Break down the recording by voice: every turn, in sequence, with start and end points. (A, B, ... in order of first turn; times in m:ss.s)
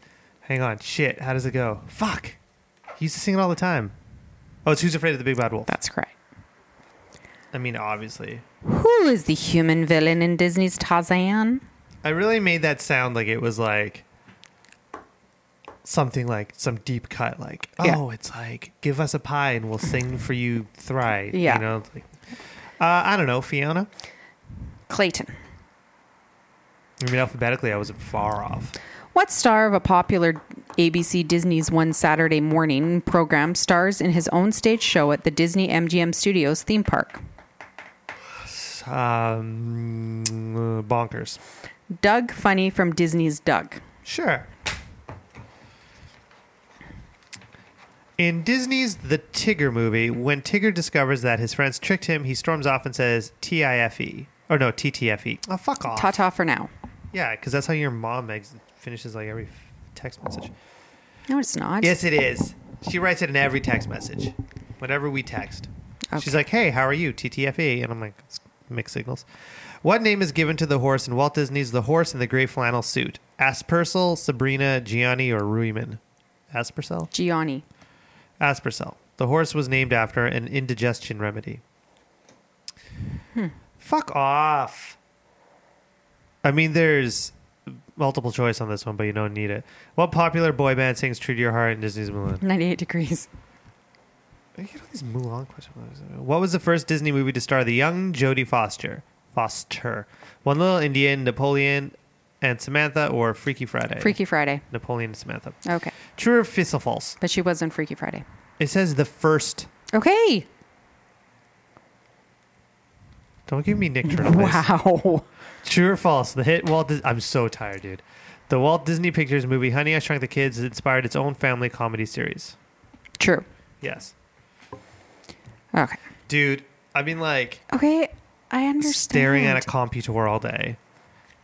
0:00.4-0:02.4 A
0:03.0-0:03.9 A
0:04.6-0:05.7 A
0:05.7-0:06.1 B
0:07.5-0:08.4 A
0:08.6-0:11.6 B
0:12.0-0:14.1 A
0:15.8-0:22.1 A
0:21.3-0:21.6 B
0:22.8-0:23.9 A
0:24.9-0:25.3 B
0:27.0-0:28.8 A
0:29.1-0:37.2 B
0:38.4-0:41.4 A
0:41.9-0:43.8 B
0:44.0-0:44.5 A
0:48.2-0:56.2 A
0:55.9-0:56.7 B
0:57.1-1:00.5 A
1:01.3-1:02.0 B
1:01.8-1:09.3 A
1:09.8-1:16.0 A
1:16.5-1:17.1 A
1:17.1-1:17.6 B
1:18.4-1:21.6 A
1:23.8-1:25.0 A
1:26.4-1:32.4 A
1:32.4-1:33.3 B
1:34.6-1:44.2 A
1:44.0-1:44.6 B
1:44.7-1:45.6 A
1:45.6-1:45.9 B
1:46.1-1:47.2 A
1:47.2-1:48.2 B
1:48.6-1:49.7 A
1:49.9-1:50.5 B
1:53.5-1:54.6 A
1:54.0-1:55.3 B
1:55.6-2:02.6 A
2:03.2-2:03.4 B
2:03.8-2:04.1 A
2:05.7-2:06.0 B
2:06.3-2:07.6 A
2:07.7-2:09.7 B
2:08.8-2:10.8 A